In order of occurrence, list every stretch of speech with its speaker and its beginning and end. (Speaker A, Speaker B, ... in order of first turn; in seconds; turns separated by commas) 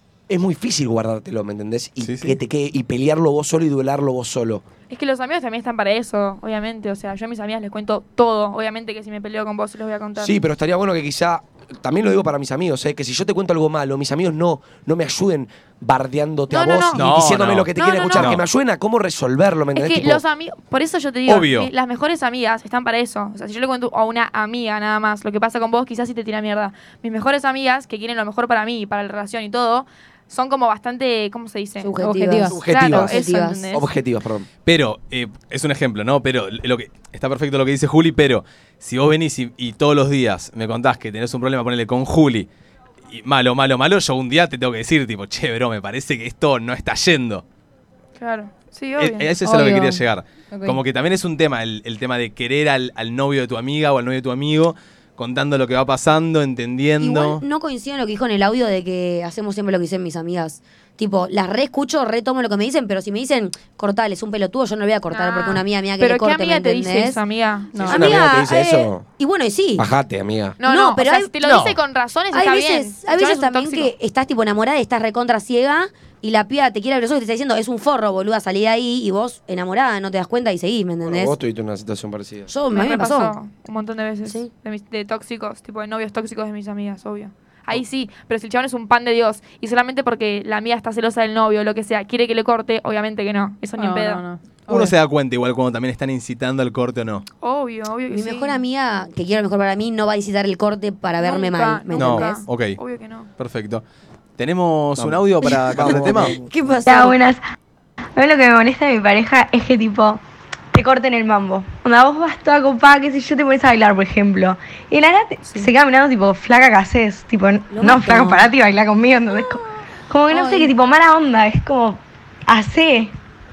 Speaker A: 0.3-4.6, Speaker B: 2.0-2.4, Speaker C: 4.9-10.4, Speaker A: 10.2-20.2, Speaker C: 16.5-17.1, Speaker B: 16.9-18.4, Speaker C: 17.7-18.4, Speaker C: 19.8-31.9, Speaker B: 21.3-21.7, Speaker D: 31.8-33.7, Speaker E: 32.0-32.6, Speaker A: 32.5-33.2, Speaker C: 32.6-33.9, Speaker A: 33.7-34.5, Speaker B: 34.6-42.5, Speaker B: 43.1-47.4, Speaker C: 48.2-49.3, Speaker B: 49.0-57.4, Speaker E: 49.4-50.8, Speaker D: 57.0-67.2, Speaker C: 65.1-68.0, Speaker E: 67.7-68.1, Speaker D: 67.8-69.9, Speaker A: 67.9-69.0, Speaker A: 69.8-70.6, Speaker C: 70.6-73.9, Speaker D: 70.6-71.3, Speaker B: 71.4-71.8, Speaker D: 72.3-81.3, Speaker A: 81.0-82.5, Speaker D: 82.5-83.3, Speaker C: 82.7-94.2, Speaker E: 93.8-94.9, Speaker B: 94.7-97.2, Speaker C: 97.4-98.6, Speaker D: 98.1-102.4, Speaker C: 101.2-103.3, Speaker B: 101.9-102.8, Speaker B: 103.4-103.8, Speaker B: 104.4-106.3, Speaker A: 105.0-106.4, Speaker D: 105.9-107.2, Speaker F: 106.8-107.4, Speaker F: 108.2-110.2, Speaker F: 110.7-123.1, Speaker D: 117.7-118.5, Speaker E: 120.3-120.7